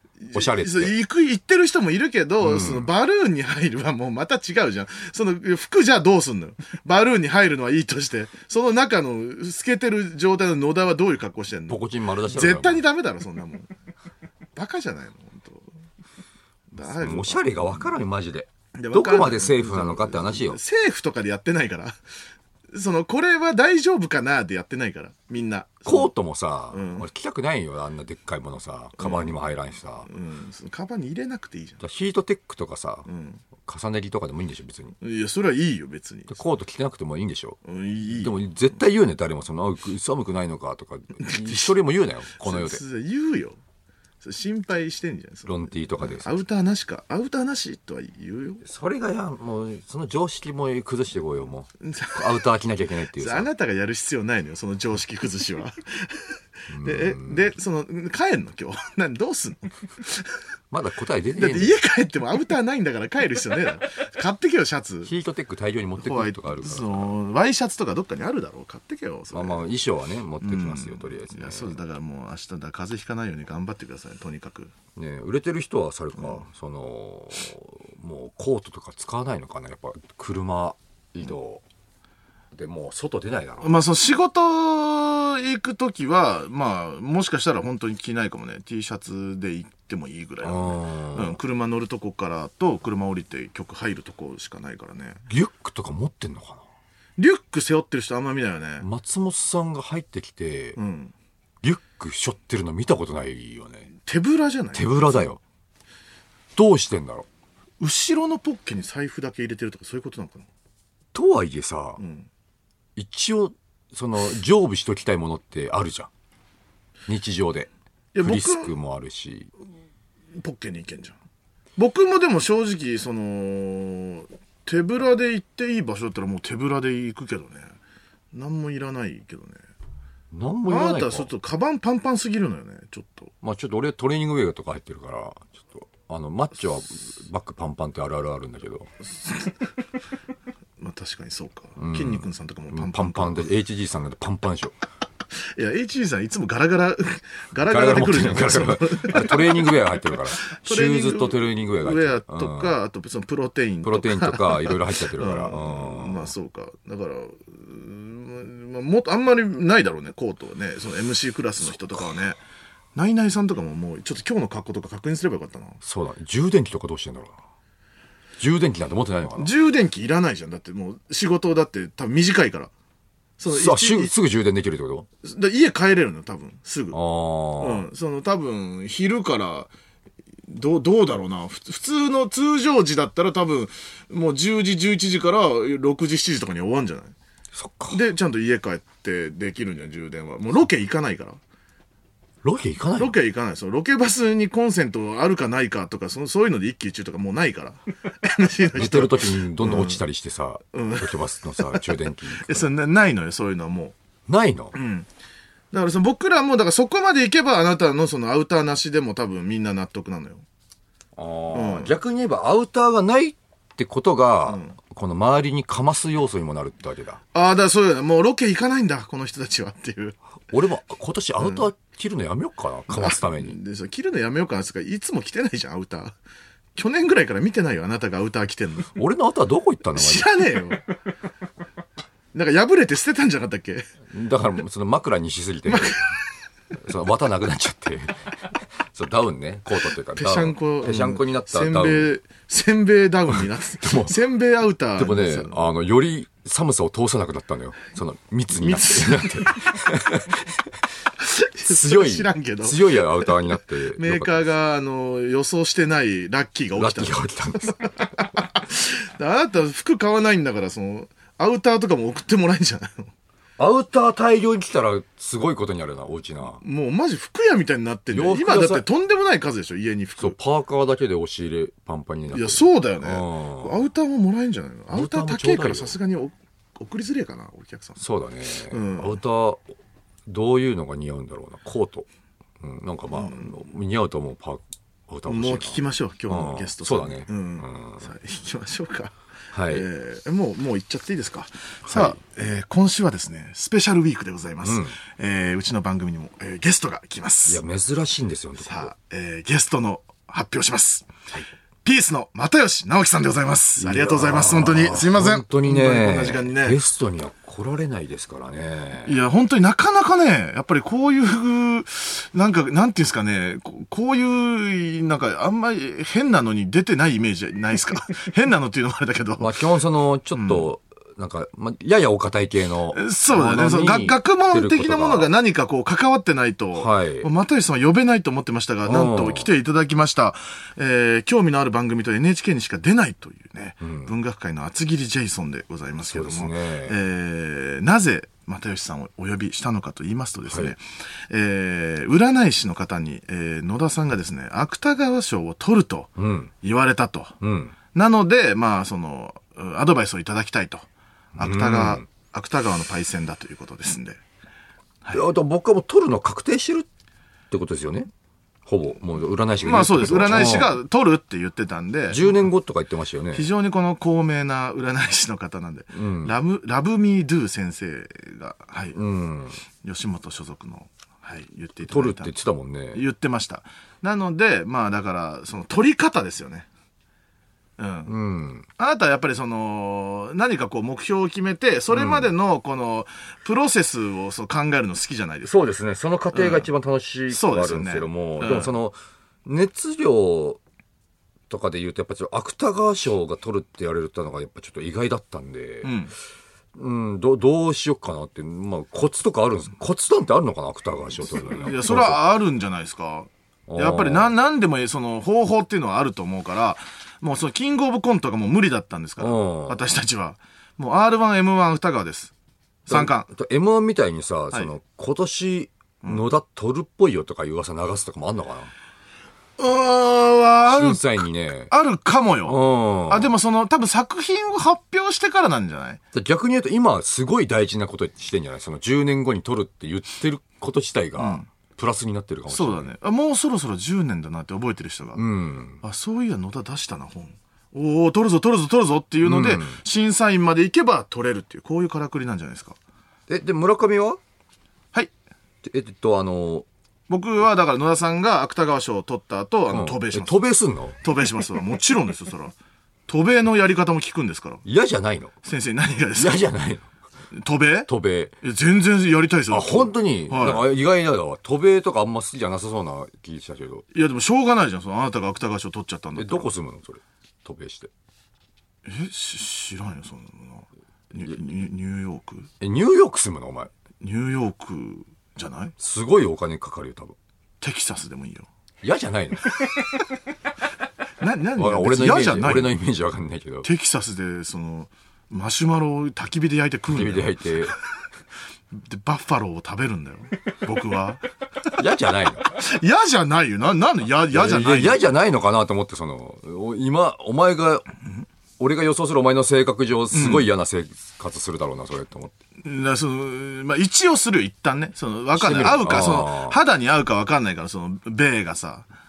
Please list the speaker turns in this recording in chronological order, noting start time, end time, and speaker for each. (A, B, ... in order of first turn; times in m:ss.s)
0:00.2-0:13.7 A
0:00.3-0:00.9 B
0:02.4-0:02.9 B
0:11.7-0:12.8 B
0:14.6-0:15.7 A
0:16.7-0:17.9 A
0:16.8-0:20.6 B
0:18.8-0:22.0 A
0:22.7-0:26.1 A
0:25.9-0:30.1 B
0:26.7-0:27.1 A
0:29.0-0:29.3 A
0:30.1-0:31.8 A
0:31.8-0:33.1 B
0:33.0-0:33.4 A
0:33.6-0:35.0 B
0:35.0-0:36.4 A
0:36.3-0:37.6 B
0:37.6-0:38.4 A
0:38.1-0:42.8 B
0:41.2-0:41.7 A
0:42.4-0:43.6 A
0:44.2-0:48.6 A
0:45.5-0:46.3 B
0:48.6-0:53.5 B
0:51.8-0:52.5 A
0:53.1-1:00.4 A
0:56.7-0:57.5 B
1:00.7-1:01.8 B
1:01.4-1:05.1 A
1:05.0-1:07.1 B
1:06.0-1:09.6 A
1:09.3-1:11.8 B
1:10.4-1:14.7 A
1:15.0-1:21.6 B
1:16.2-1:16.4 A
1:22.5-1:23.7 B
1:23.6-1:35.2 A
1:30.4-1:31.4 B
1:35.3-1:36.6 B
1:37.2-1:38.9 A
1:38.8-1:40.8 B
1:40.8-1:41.1 A
1:41.6-1:43.9 B
1:44.0-1:45.3 A
1:44.8-1:45.4 B
1:46.6-1:47.2 B
1:47.8-1:50.5 A
1:51.1-1:52.0 B
1:52.0-1:52.3 A
1:53.0-1:56.1 B
1:57.1-1:57.7 B
1:58.1-1:58.7 A
1:58.2-1:59.5 B
2:00.4-2:01.2 A
2:01.8-2:07.7 A
2:08.3-2:09.6 A
2:10.3-2:11.3 B
2:10.7-2:13.3 A
2:13.4-2:18.9 B
2:19.2-2:19.5 A
2:20.8-2:23.5 A
2:21.8-2:24.8 B
2:25.3-2:29.7 A
2:27.6-2:32.8 B
2:30.4-2:42.4 A
2:33.8-2:36.3 B
2:42.9-2:45.8 A
2:45.8-2:47.4 B
2:48.4-2:49.5 B
2:49.4-2:52.7 A
2:53.4-2:54.1 A
2:53.5-2:55.1 B
2:55.2-2:57.0 A
2:56.9-2:57.8 B
2:57.6-2:59.7 A
3:00.5-3:07.1 A
3:07.5-3:08.0 B
3:07.9-3:11.4 A
3:12.4-3:13.1 B
3:13.0-3:20.0 A
3:18.8-3:22.6 B
3:20.7-3:23.9 A
3:24.3-3:24.8 B
3:24.7-3:25.1 A
3:25.7-3:30.4 A
3:31.2-3:37.2 B
3:31.5-3:31.9 A
3:34.5-3:34.8 A
3:37.3-3:40.2 A
3:40.5-3:43.6 B
3:41.4-3:41.6 A
3:42.9-3:46.2 A
3:46.8-3:48.9 A
3:48.9-3:50.3 B
3:50.0-3:50.8 A
3:52.3-3:53.8 A
3:54.1-3:56.0 B
3:55.7-3:56.1 A
3:56.8-3:58.2 B
3:58.9-4:02.1 B
4:00.1-4:05.6 A
4:03.8-4:04.1 B
4:05.0-4:10.6 B
4:08.6-4:09.8 A
4:11.2-4:23.1 A
4:11.6-4:14.4 B
4:16.8-4:17.9 B
4:23.6-4:26.6 B
4:26.6-4:30.4 A
4:28.1-4:28.8 B
4:30.2-4:33.7 B
4:32.3-4:38.0 A
4:34.9-4:36.0 B
4:38.0-4:39.6 B
4:38.7-4:39.2 A
4:40.3-4:42.1 B
4:42.6-4:48.1 B
4:43.1-4:43.5 A
4:45.3-4:49.1 A
4:49.5-4:49.9 B
4:49.7-4:57.6 A
4:51.9-4:52.2 B
4:54.6-4:55.0 B
4:57.5-4:58.9 B
4:58.6-5:01.1 A
5:01.8-5:06.8 A
5:03.8-5:09.2 B
5:09.1-5:19.5 A
5:19.4-5:25.3 B
5:20.3-5:20.6 A
5:22.9-5:47.4 A
5:26.7-5:27.3 B
5:28.8-5:29.5 B
5:33.8-5:34.1 B
5:36.1-5:37.0 B
5:40.5-5:40.7 B
5:46.2-5:46.5 B
5:47.4-5:47.7 B
5:47.9-5:54.2 A
5:51.4-5:52.0 B
5:55.1-5:56.9 B
5:57.5-5:58.1 B
5:58.6-6:00.7 B
5:59.6-6:02.4 A
6:02.1-6:03.5 B
6:03.3-6:09.0 A
6:05.9-6:06.3 B
6:08.9-6:09.6 B
6:09.8-6:12.3 A
6:11.9-6:13.0 B
6:12.9-6:16.7 A
6:17.8-6:18.1 A
6:18.1-6:18.6 B
6:18.8-6:25.5 A
6:21.9-6:22.3 B
6:25.4-6:30.6 B
6:26.3-6:26.7 A
6:27.3-6:28.7 A
6:31.5-6:35.9 B
6:35.8-6:36.1 A
6:36.7-6:42.2 B
6:41.4-6:52.3 A
6:43.7-6:44.3 B
6:49.2-6:49.9 B
6:52.9-6:53.3 A
6:52.9-6:58.7 B
6:59.6-7:06.0 A
7:00.7-7:01.7 B
7:02.4-7:03.3 B
7:06.1-7:12.9 B
7:11.2-7:11.5 A
7:12.5-7:15.2 A
7:15.2-7:15.8 B
7:15.8-7:22.8 A
7:19.2-7:19.8 B
7:23.3-7:24.2 B
7:25.6-7:26.6 B
7:27.1-7:30.4 A
7:29.7-7:31.0 B
7:31.0-7:32.6 A
7:33.1-7:34.6 A
7:34.6-7:35.3 B
7:35.4-7:36.4 A
7:36.2-7:36.9 B
7:37.3-7:37.9 A
7:37.9-7:38.3 B
7:38.4-7:40.7 A
7:39.5-7:43.9 B
7:43.9-7:46.5 A
7:46.1-7:47.9 B
7:48.8-7:52.5 A
7:52.6-7:53.7 B
7:54.0-7:55.7 A
7:55.8-7:57.2 B
7:57.6-7:58.5 A
7:58.8-7:59.6 B
8:01.2-8:02.8 A
8:01.6-8:03.7 B
8:03.6-8:07.4 A
8:06.9-8:07.8 B
8:08.7-8:11.2 A
8:11.7-8:12.6 B
8:12.4-8:15.1 A
8:14.3-8:17.9 B
8:18.6-8:22.3 B
8:20.1-8:20.5 A
8:22.6-8:28.9 A
8:25.3-8:26.6 B